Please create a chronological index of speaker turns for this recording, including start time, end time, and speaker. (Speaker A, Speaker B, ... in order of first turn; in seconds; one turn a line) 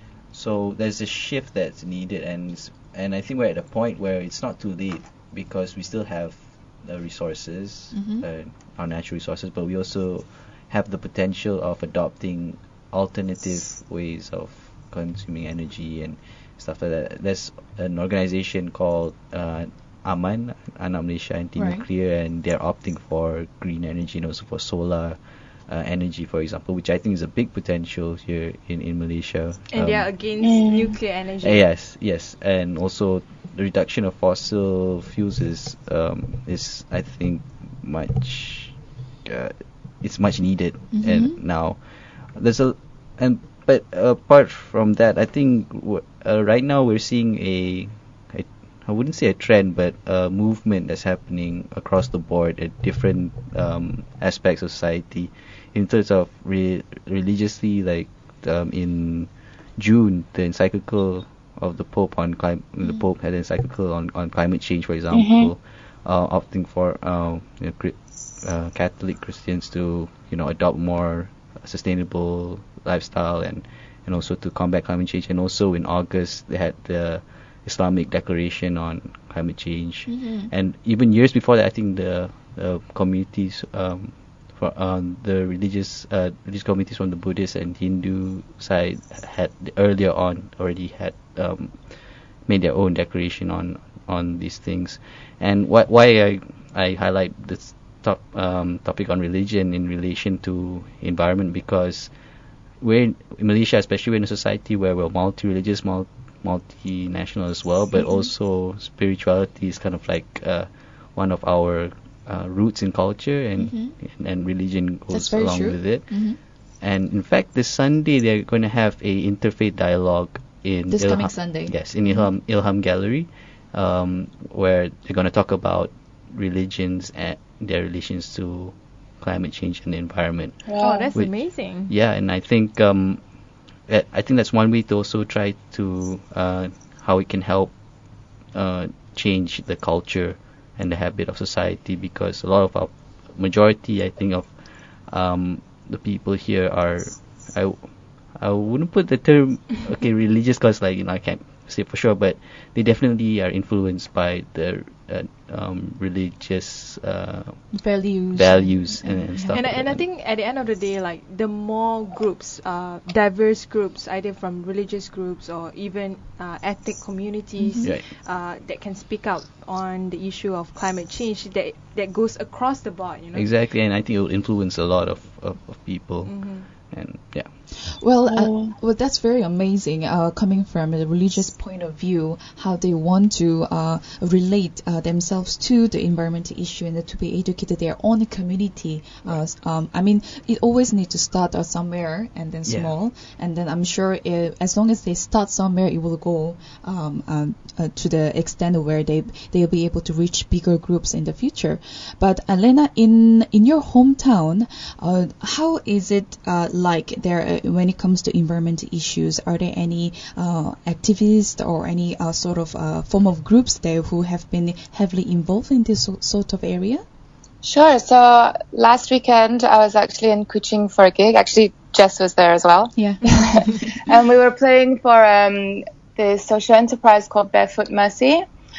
Speaker A: 0.3-30.1
Speaker B: 7.9-8.2
Speaker B: 21.6-21.9
Speaker C: 29.7-31.6
Speaker D: 30.4-30.9
Speaker A: 31.4-91.8
Speaker B: 40.9-41.4
Speaker D: 65.1-65.5
Speaker B: 80.1-80.5
Speaker A: 92.5-102.1
Speaker A: 102.8-116.3
Speaker B: 108.0-108.3
Speaker B: 113.6-114.0
Speaker B: 115.1-116.4
Speaker A: 116.8-133.2
Speaker B: 120.9-121.8
Speaker D: 130.7-131.1
Speaker C: 130.8-131.9
Speaker A: 133.9-137.8
Speaker A: 138.5-144.5
Speaker A: 145.1-157.7
Speaker B: 157.7-159.7
Speaker A: 158.3-160.0
Speaker C: 159.5-173.5
Speaker B: 167.6-167.9
Speaker A: 173.3-177.5
Speaker C: 176.2-176.7
Speaker B: 177.9-217.0
Speaker D: 178.3-178.7
Speaker A: 192.7-192.9
Speaker D: 217.6-228.4
Speaker B: 223.0-223.9